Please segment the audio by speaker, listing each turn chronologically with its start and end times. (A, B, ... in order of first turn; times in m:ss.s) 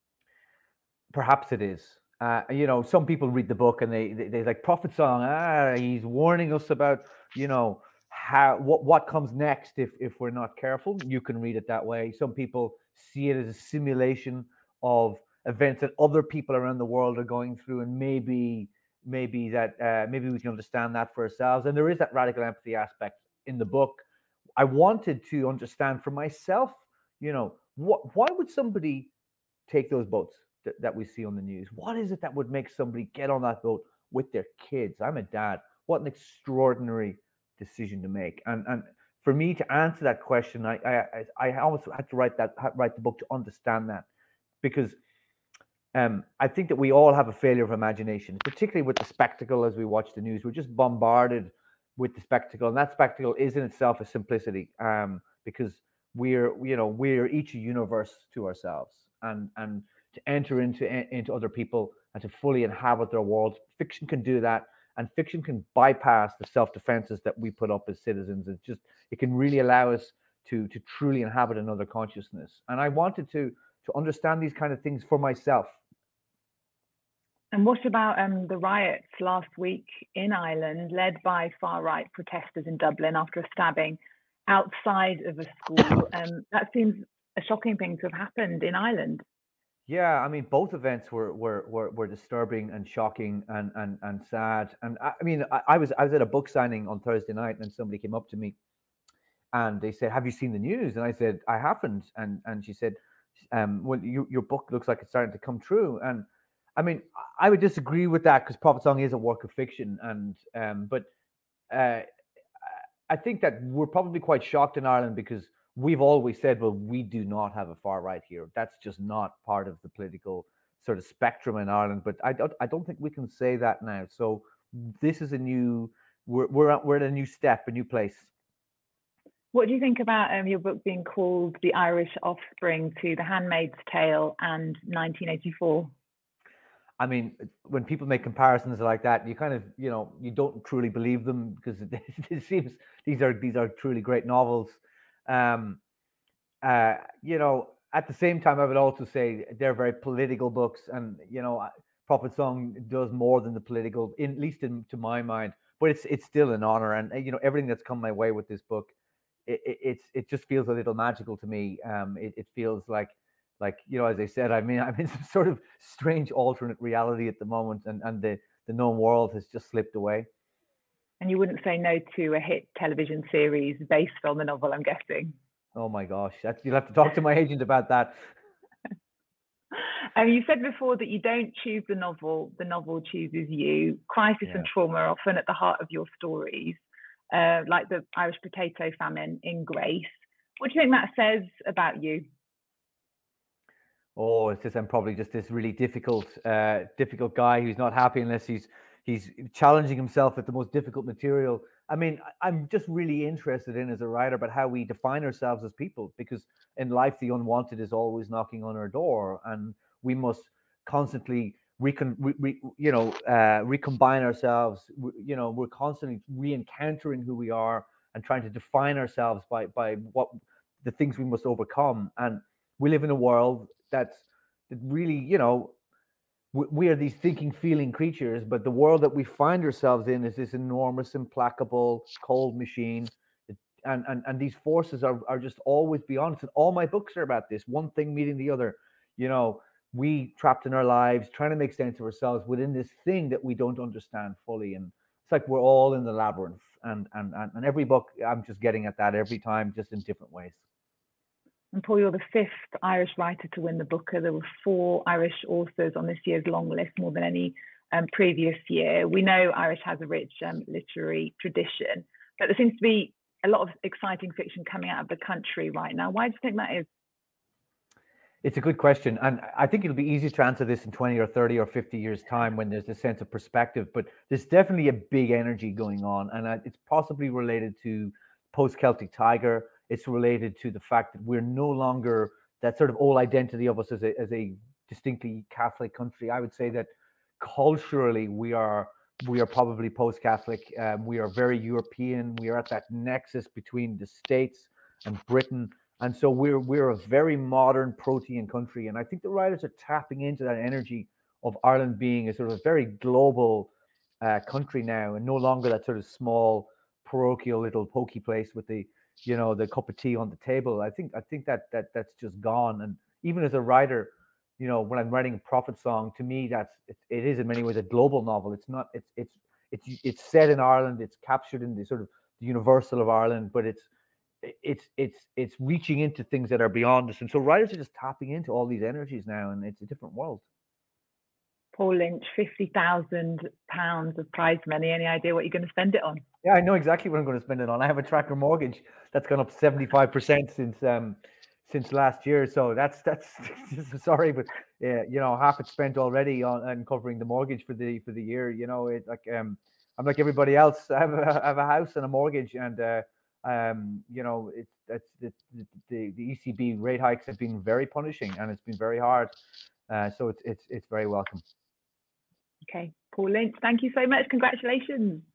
0:01.1-0:24.0 A
0:24.6-0:29.1 A
0:29.7-0:44.0 A
0:44.6-0:45.0 A
0:45.9-1:15.8 A
1:17.5-1:29.2 B
1:29.9-1:38.5 A
1:39.5-1:43.0 A
1:43.5-1:46.2 A
1:46.8-1:51.0 A
1:51.7-1:52.0 A
1:53.1-2:08.3 A
2:09.5-2:15.9 B
2:17.0-2:25.8 A
2:26.6-2:38.9 A
2:39.4-2:50.3 A
2:51.2-2:55.3 B
2:55.7-2:58.2 A
2:59.7-3:12.2 B
3:14.2-3:45.7 A
3:46.5-4:10.6 A
4:11.7-4:26.9 B
4:28.4-4:46.9 A
4:47.4-5:03.7 A
5:04.2-5:23.9 A
5:24.4-5:30.4 A
5:31.7-5:36.2 B
5:36.4-5:59.3 A
5:59.9-6:01.4 A
6:02.6-6:05.2 B